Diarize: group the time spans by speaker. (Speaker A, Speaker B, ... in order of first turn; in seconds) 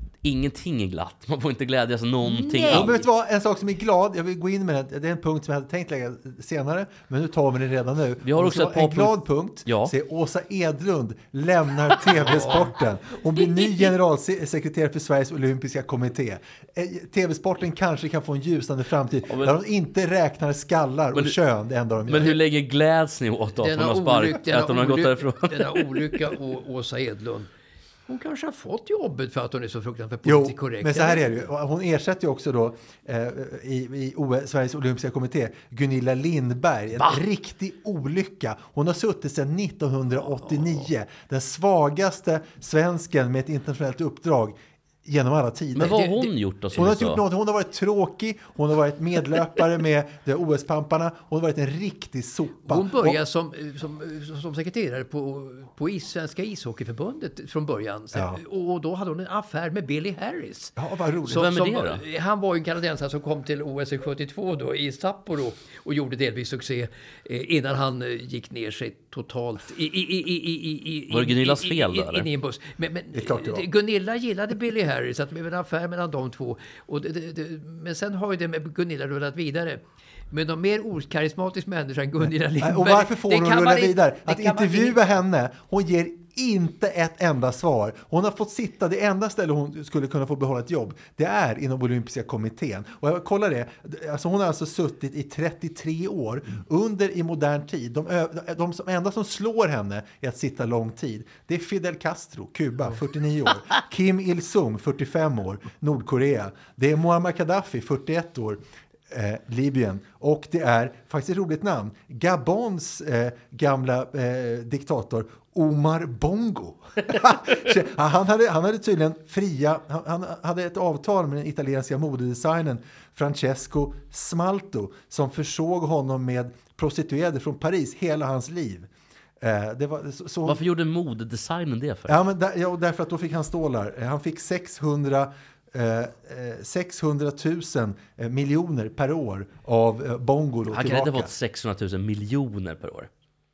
Speaker A: 0.2-3.1, 8.2-9.9, 19.3-19.6, 22.1-26.2, 45.8-47.2, 61.3-62.0, 71.1-72.3, 130.5-132.2, 140.7-143.1
Speaker B: 2.3-2.9, 12.2-12.7, 23.6-27.5, 28.1-31.4, 40.4-40.9, 45.8-46.3, 52.6-85.0
Speaker C: 2.7-22.4, 30.2-46.0, 46.7-53.2, 58.1-58.4, 60.8-61.5, 73.1-73.7, 82.6-130.6, 132.1-141.3